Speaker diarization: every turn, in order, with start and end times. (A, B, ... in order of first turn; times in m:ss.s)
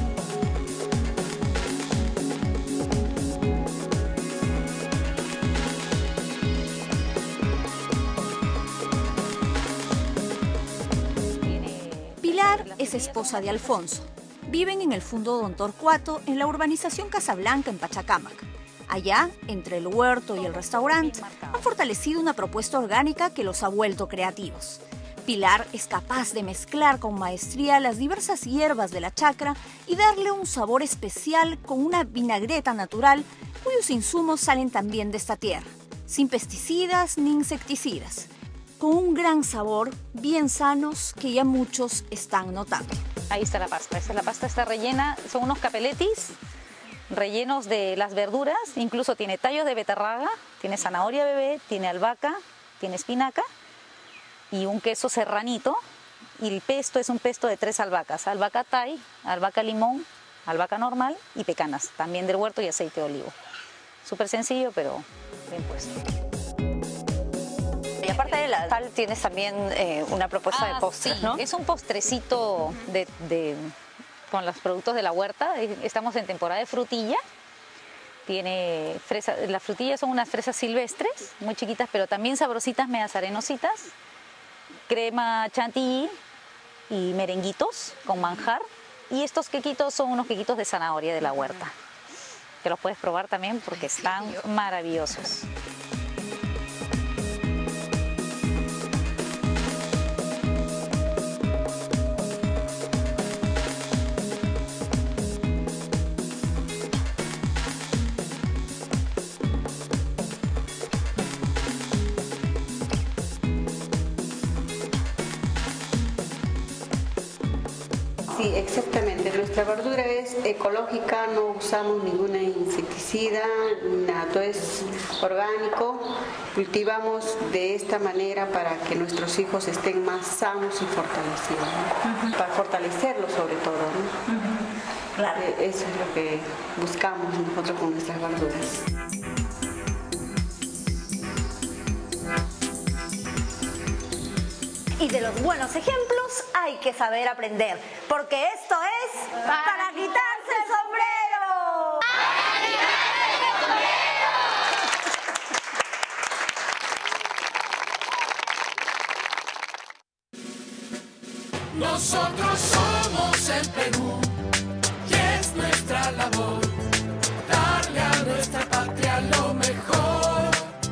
0:11.4-0:13.9 A
0:12.2-0:43.0 B
0:20.3-0:21.7 A
0:43.3-0:46.4 A
0:47.1-0:53.4 A
0:54.5-0:55.8 A
0:56.4-1:03.3 A
1:04.0-1:05.9 A
1:08.0-1:11.4 C
1:10.5-1:13.7 A
1:14.3-1:17.2 A
1:18.3-1:23.9 A
1:24.9-1:26.2 A
1:26.9-1:31.7 A
1:32.6-1:35.5 A
1:58.3-2:14.1 D
2:15.4-2:18.8 D
2:25.1-2:26.6 C
2:25.4-2:32.0 B
2:41.9-2:44.2 E
2:45.1-2:46.6 E
2:47.5-2:50.6 E